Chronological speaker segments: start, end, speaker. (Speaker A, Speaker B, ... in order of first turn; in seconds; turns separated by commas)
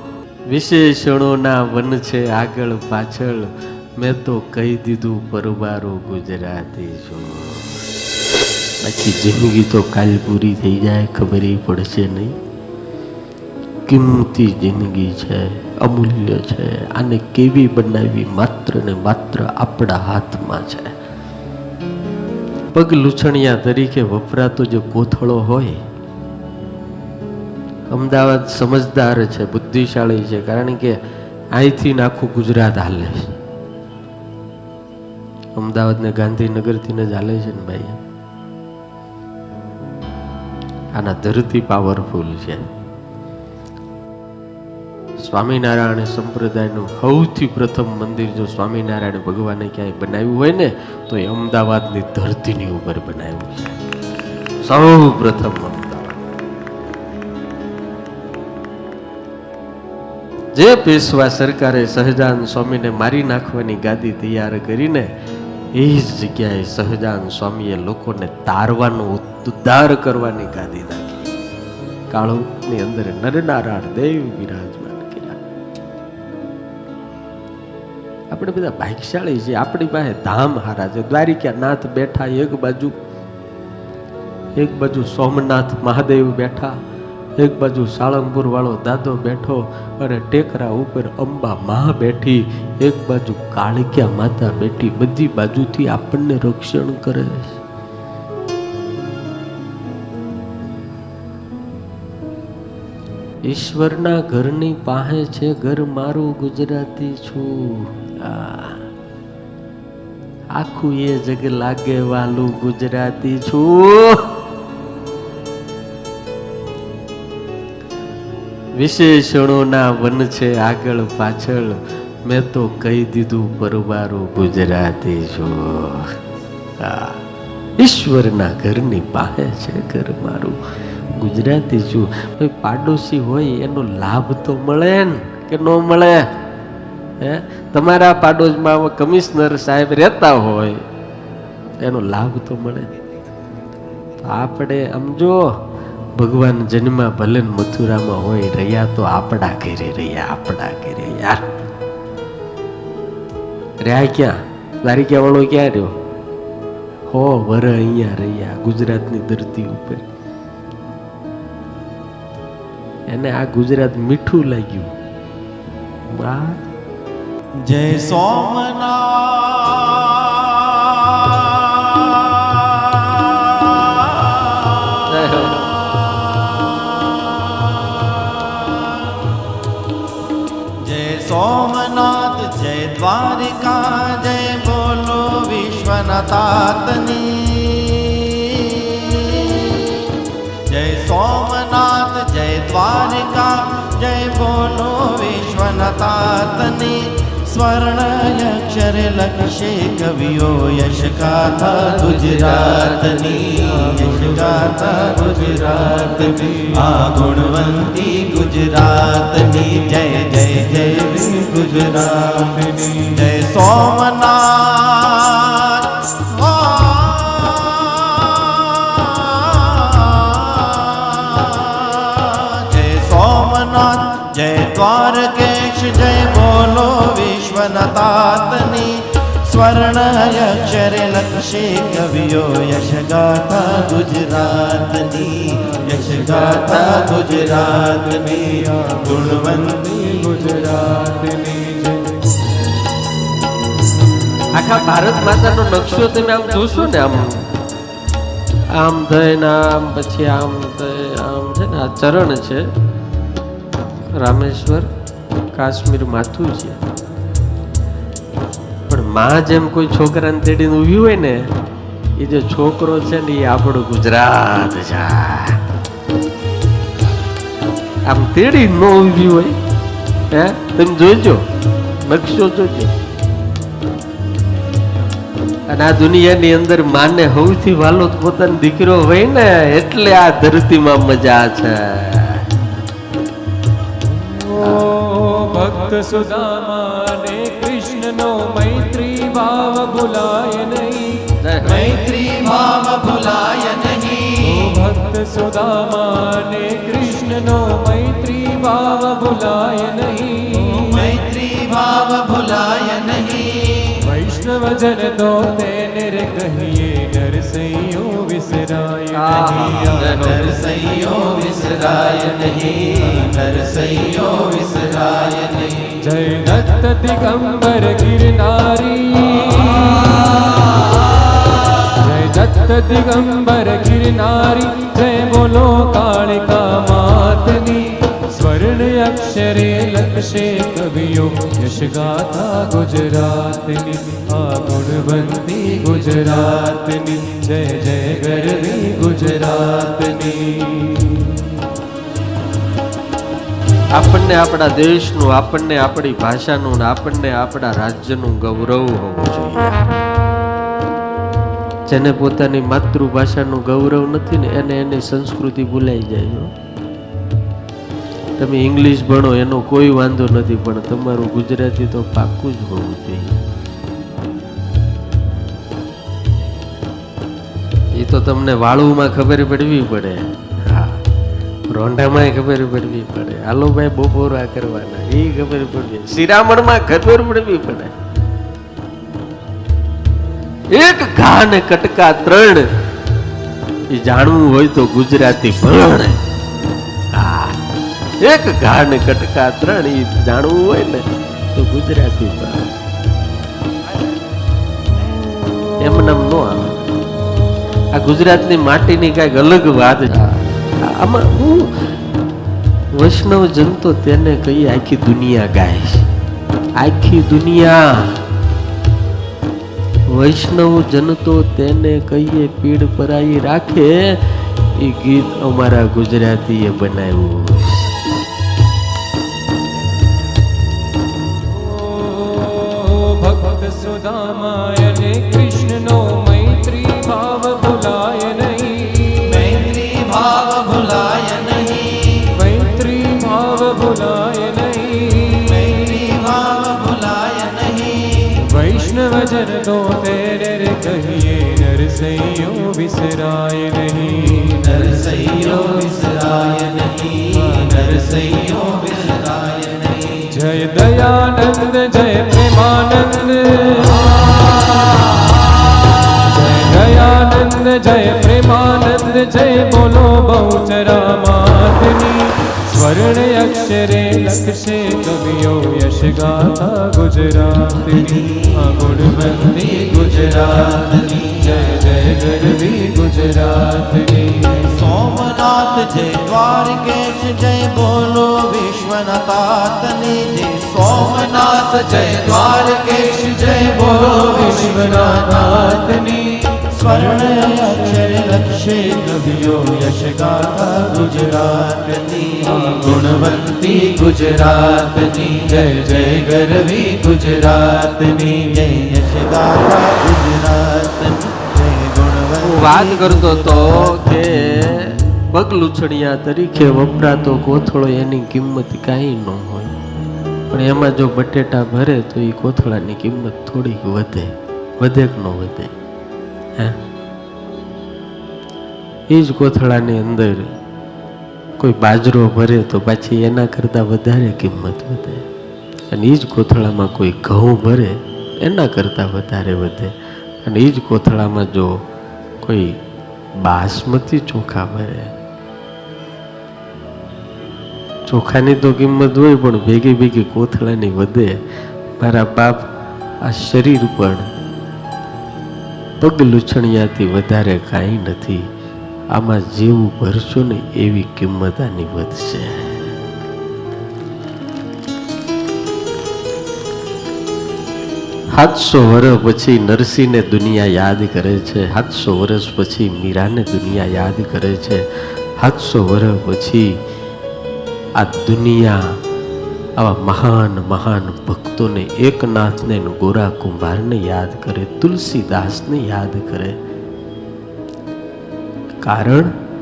Speaker A: 0.5-7.8, Speaker A: 8.8-12.4, Speaker A: 13.9-20.9, Speaker A: 22.7-25.8, Speaker A: 27.9-31.0, Speaker A: 31.6-33.3, Speaker A: 35.6-38.0, Speaker A: 40.9-42.7, Speaker A: 45.2-53.8, Speaker A: 54.6-56.2, Speaker A: 60.5-65.1, Speaker A: 65.8-71.3, Speaker A: 72.1-75.4, Speaker A: 78.3-83.0, Speaker A: 84.6-86.8, Speaker A: 87.4-97.6, Speaker A: 103.5-108.9, Speaker A: 110.5-114.3, Speaker A: 118.8-126.2, Speaker A: 126.8-127.2, Speaker A: 127.8-130.6, Speaker A: 131.1-136.3, Speaker A: 137.2-140.9, Speaker A: 141.8-142.9, Speaker A: 144.2-145.6, Speaker A: 146.2-151.5, Speaker A: 153.8-155.9, Speaker A: 157.1-160.1, Speaker A: 163.1-164.9, Speaker A: 166.1-166.6, Speaker B: 167.6-179.4, Speaker A: 175.1-175.7, Speaker B: 180.8-190.1, Speaker B: 190.7-240.1, Speaker C: 205.2-206.4, Speaker C: 212.5-213.2, Speaker C: 238.7-242.4, Speaker A: 244.5-247.5, Speaker A: 248.7-252.7, Speaker A: 254.1-254.9, Speaker A: 255.5-256.9, Speaker A: 258.9-261.5, Speaker A: 262.2-265.6, Speaker A: 268.1-269.6, Speaker A: 270.3-271.4, Speaker A: 272.0-272.9, Speaker A: 275.7-282.5, Speaker C: 284.1-291.8, Speaker A: 284.6-285.0, Speaker A: 291.4-292.0, Speaker B: 291.6-294.7, Speaker C: 294.4-301.1, Speaker B: 300.8-304.1, Speaker C: 304.0-309.9, Speaker A: 309.1-310.5, Speaker B: 309.4-316.0, Speaker C: 316.0-321.0, Speaker C: 321.8-341.6, Speaker A: 343.9-349.9, Speaker A: 351.9-356.5, Speaker A: 358.4-363.4, Speaker A: 367.9-371.0, Speaker A: 371.7-377.9, Speaker A: 380.7-382.7, Speaker A: 383.9-386.2, Speaker A: 387.1-387.6, Speaker A: 388.2-392.7, Speaker A: 395.8-396.9, Speaker A: 397.9-402.0, Speaker A: 402.9-406.1, Speaker A: 406.8-408.2, Speaker A: 410.1-417.9, Speaker C: 421.5-429.4, Speaker B: 429.3-432.3, Speaker C: 432.3-435.8, Speaker B: 435.4-438.4, Speaker C: 438.4-444.8, Speaker B: 444.5-450.3, Speaker C: 450.3-455.1, Speaker C: 456.1-474.6, Speaker B: 469.0-471.5, Speaker B: 474.6-504.3, Speaker C: 483.9-486.5, Speaker A: 502.4-509.7, Speaker A: 510.5-515.7, Speaker A: 519.1-520.5, Speaker A: 521.6-525.3, Speaker A: 525.9-529.9, Speaker A: 530.4-531.8, Speaker A: 532.4-532.8, Speaker A: 533.4-535.1, Speaker A: 538.1-541.4, Speaker A: 542.0-542.7, Speaker A: 543.2-544.3, Speaker A: 546.0-548.5, Speaker A: 549.1-552.9, Speaker A: 558.4-566.8, Speaker A: 568.0-569.0, Speaker A: 569.8-576.6, Speaker A: 578.8-579.3